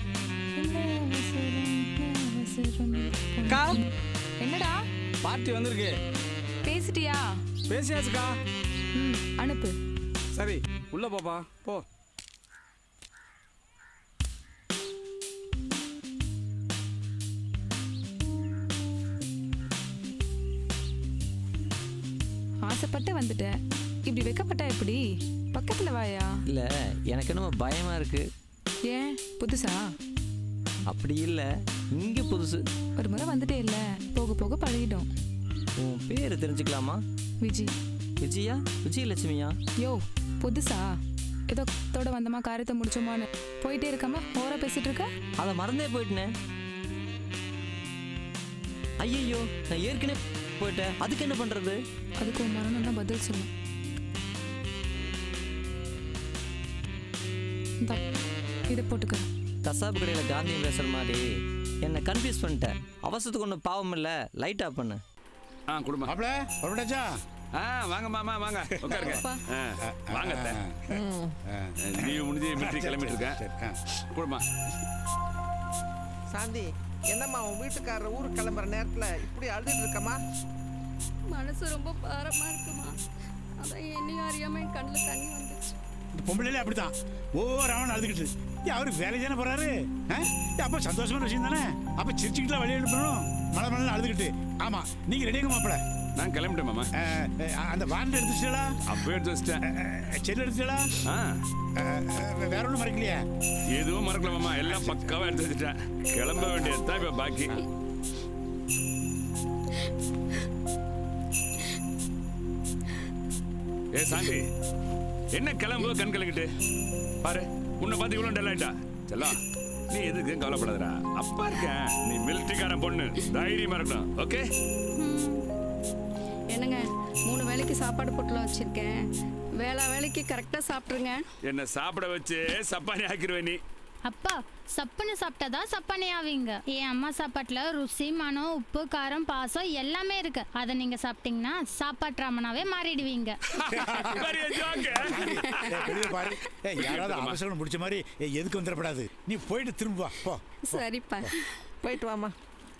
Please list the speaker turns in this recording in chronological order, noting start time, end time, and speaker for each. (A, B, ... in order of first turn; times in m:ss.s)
0:00.6-0:03.9 A
0:03.5-0:03.8 B
0:04.4-0:04.7 A
0:05.2-0:05.9 B
0:06.6-0:07.3 A
0:07.7-0:08.3 B
0:09.0-0:09.7 A
0:10.4-0:11.8 B
0:22.7-0:23.5 A
0:24.1-0:25.0 A
0:25.5-0:26.3 A
0:26.5-0:28.3 C
0:28.9-0:29.8 A
0:30.9-0:32.6 C
0:33.0-0:35.1 A
0:35.8-0:37.0 C
0:37.4-0:37.7 A
0:38.2-0:39.6 C
0:39.8-0:40.8 A
0:41.5-0:45.1 A
0:45.4-0:46.3 C
0:49.0-0:51.8 C
0:52.2-0:53.5 A
0:58.7-0:59.3 A
0:59.6-1:01.3 C
1:01.8-1:05.0 C
1:05.7-1:06.1 D
1:06.0-1:07.1 E
1:07.6-1:10.6 D
1:08.8-1:09.2 E
1:09.0-1:09.3 F
1:09.8-1:13.8 E
1:11.0-1:11.3 G
1:11.8-1:13.4 D
1:14.1-1:14.4 D
1:16.3-1:20.2 G
1:21.3-1:23.0 F
1:23.6-1:25.8 F
1:26.2-1:35.8 E
1:36.2-1:36.9 D
1:37.0-1:38.7 E
1:38.9-1:39.6 D
1:39.6-1:40.9 E
1:41.1-1:41.4 D
1:41.8-1:43.2 E
1:43.7-1:47.6 D
1:44.6-1:45.2 E
1:53.9-1:54.4 D
1:55.3-1:56.5 D
1:57.2-2:04.4 D
2:05.0-2:05.4 H
2:06.5-2:11.3 F
2:11.4-2:13.6 D
2:14.0-2:23.4 H
2:23.6-2:25.9 D
2:23.7-2:24.4 E
2:25.0-2:31.3 E
2:26.8-2:27.4 D
2:30.7-2:31.5 F
2:31.8-2:32.4 G